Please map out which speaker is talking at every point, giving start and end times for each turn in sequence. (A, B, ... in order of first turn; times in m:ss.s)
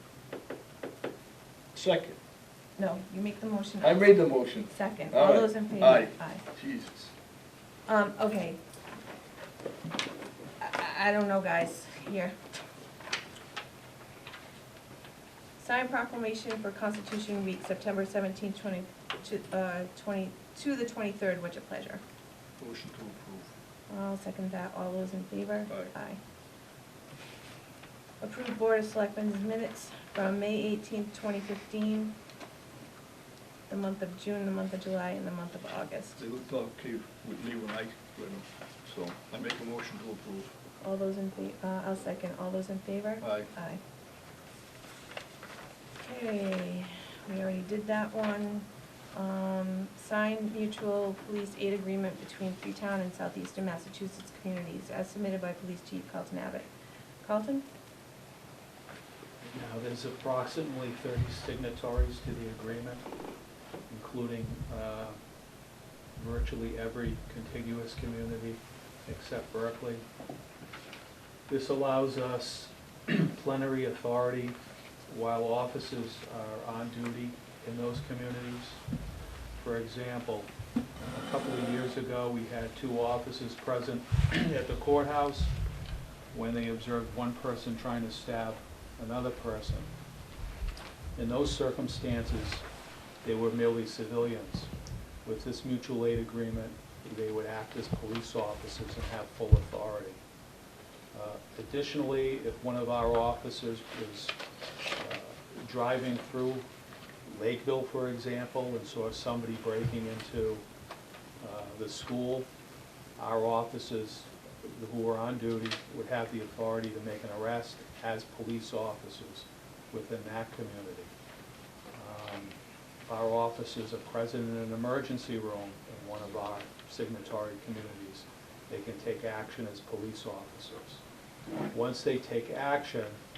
0:01.7-0:02.2 A
0:02.8-0:06.4 B
0:03.8-0:07.1 A
0:07.9-0:08.6 B
0:10.6-0:12.4 B
0:15.6-0:22.0 B
0:22.6-0:23.5 A
0:23.9-0:26.2 B
0:28.2-0:32.2 B
0:33.7-0:36.2 B
0:36.2-0:40.5 A
0:40.8-0:43.8 B
0:43.2-0:43.5 A
0:46.0-0:56.7 B
0:57.2-0:57.7 B
0:59.4-1:03.0 C
1:03.9-1:05.2 C
1:06.2-1:10.0 C
1:11.5-1:14.6 C
1:15.1-1:18.8 C
1:19.6-1:20.5 C
1:21.1-1:25.5 C
1:26.3-1:29.9 C
1:31.2-1:32.6 C
1:33.2-1:34.7 C
1:35.2-1:40.2 C
1:41.1-1:44.4 C
1:45.0-1:46.7 C
1:47.3-1:50.6 C
1:51.4-1:52.5 C
1:53.2-2:01.1 C
2:01.9-2:11.0 C
2:11.7-2:13.2 C